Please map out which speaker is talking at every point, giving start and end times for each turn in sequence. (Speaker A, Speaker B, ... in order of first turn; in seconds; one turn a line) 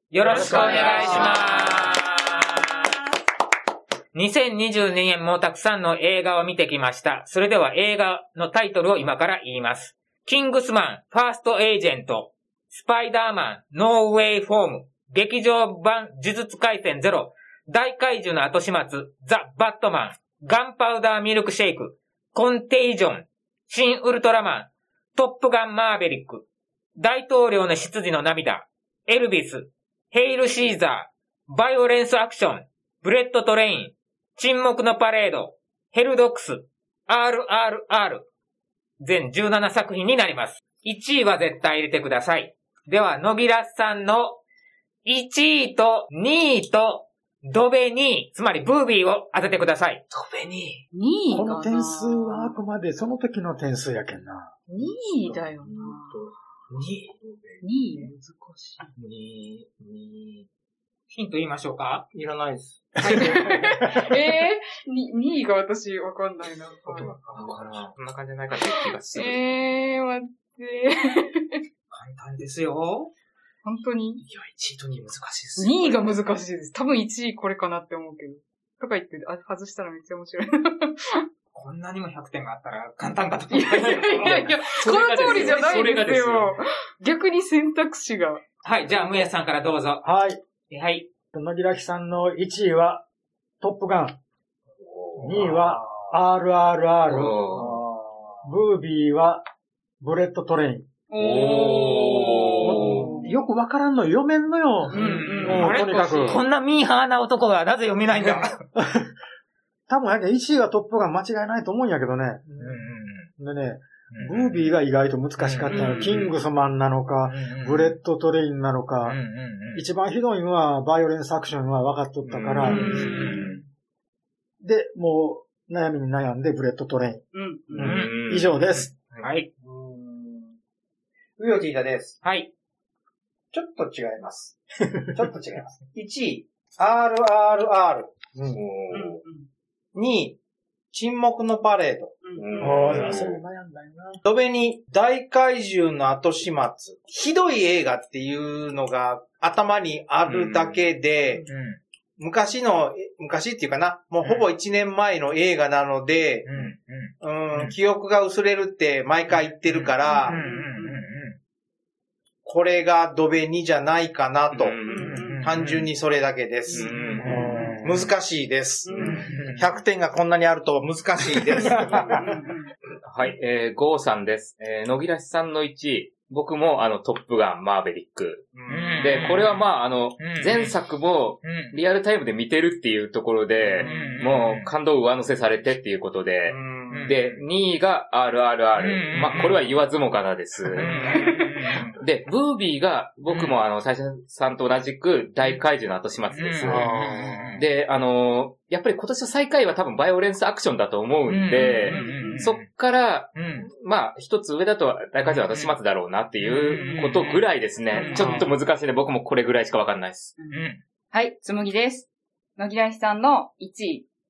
Speaker A: 0.1-2.7
Speaker B: 0.2-2.2
Speaker C: 0.3-1.3
Speaker D: 0.5-1.2
Speaker A: 4.1-38.2
Speaker A: 39.0-44.4
Speaker A: 45.0-50.0
Speaker D: 50.1-50.8
Speaker B: 50.9-52.5
Speaker E: 51.3-54.5
Speaker B: 54.7-56.2
Speaker C: 54.8-56.3
Speaker D: 56.7-57.1
Speaker C: 56.9-57.6
Speaker B: 57.6-58.1
Speaker D: 58.0-60.5
Speaker A: 61.1-62.0
Speaker C: 62.1-63.4
Speaker B: 63.0-67.1
Speaker C: 66.9-67.9
Speaker D: 67.3-69.4
Speaker B: 68.9-71.6
Speaker A: 71.9-73.1
Speaker B: 73.6-74.2
Speaker D: 74.2-76.0
Speaker B: 75.6-81.2
Speaker A: 81.5-84.5
Speaker B: 83.5-88.4
Speaker D: 84.1-86.6
Speaker A: 85.2-85.6
Speaker A: 88.6-90.1
Speaker E: 90.0-90.4
Speaker A: 90.7-91.1
Speaker E: 91.3-93.0
Speaker E: 93.6-94.2
Speaker D: 94.8-95.6
Speaker E: 95.2-97.4
Speaker D: 97.1-97.8
Speaker C: 97.4-98.4
Speaker E: 98.4-99.4
Speaker E: 100.0-100.9
Speaker B: 101.1-103.3
Speaker D: 101.2-103.1
Speaker E: 102.6-106.4
Speaker A: 104.9-108.6
Speaker B: 104.9-105.7
Speaker E: 108.7-109.1
Speaker E: 109.9-112.8
Speaker A: 112.6-113.3
Speaker E: 113.4-119.2
Speaker A: 114.1-114.7
Speaker A: 115.4-116.3
Speaker B: 115.7-116.1
Speaker A: 117.2-118.0
Speaker A: 119.0-119.8
Speaker E: 119.7-123.1
Speaker D: 122.2-123.6
Speaker B: 122.6-123.6
Speaker A: 122.7-123.6
Speaker E: 124.6-127.2
Speaker B: 127.3-127.9
Speaker D: 127.7-129.3
Speaker E: 127.8-128.9
Speaker A: 127.8-128.2
Speaker A: 129.2-129.5
Speaker C: 129.6-130.6
Speaker C: 131.4-132.2
Speaker A: 132.2-132.5
Speaker C: 133.5-138.5
Speaker D: 138.5-139.2
Speaker B: 138.9-139.5
Speaker C: 139.9-140.4
Speaker C: 140.9-143.2
Speaker B: 142.2-142.8
Speaker D: 142.3-143.4
Speaker E: 142.6-144.2
Speaker C: 144.2-151.4
Speaker D: 150.2-150.8
Speaker A: 151.4-151.8
Speaker C: 152.2-156.5
Speaker A: 156.4-157.7
Speaker C: 157.2-160.4
Speaker A: 159.6-161.4
Speaker B: 160.0-161.0
Speaker C: 162.4-164.8
Speaker D: 164.5-165.2
Speaker B: 164.8-165.5
Speaker A: 164.9-165.9
Speaker C: 165.4-166.9
Speaker B: 166.7-167.8
Speaker D: 166.7-167.3
Speaker A: 166.9-167.3
Speaker E: 167.2-168.1
Speaker C: 167.8-172.3
Speaker B: 168.8-169.4
Speaker A: 169.0-169.8
Speaker A: 171.7-172.0
Speaker B: 172.0-172.7
Speaker D: 173.0-191.3
Speaker C: 178.6-179.1
Speaker A: 178.7-179.7
Speaker A: 180.2-180.8
Speaker A: 181.4-181.8
Speaker A: 183.7-184.7
Speaker C: 183.8-184.2
Speaker C: 186.4-187.4
Speaker A: 186.9-187.2
Speaker A: 188.8-189.7
Speaker A: 190.7-192.0
Speaker C: 190.8-191.1
Speaker B: 191.0-191.6
Speaker D: 192.0-210.3
Speaker A: 193.3-193.6
Speaker A: 196.3-197.6
Speaker E: 196.6-197.5
Speaker A: 201.3-202.7
Speaker B: 201.8-202.5
Speaker A: 203.3-203.7
Speaker A: 205.2-205.8
Speaker A: 206.4-208.5
Speaker B: 206.7-207.2
Speaker B: 207.9-208.5
Speaker B: 210.4-214.1
Speaker A: 210.5-210.8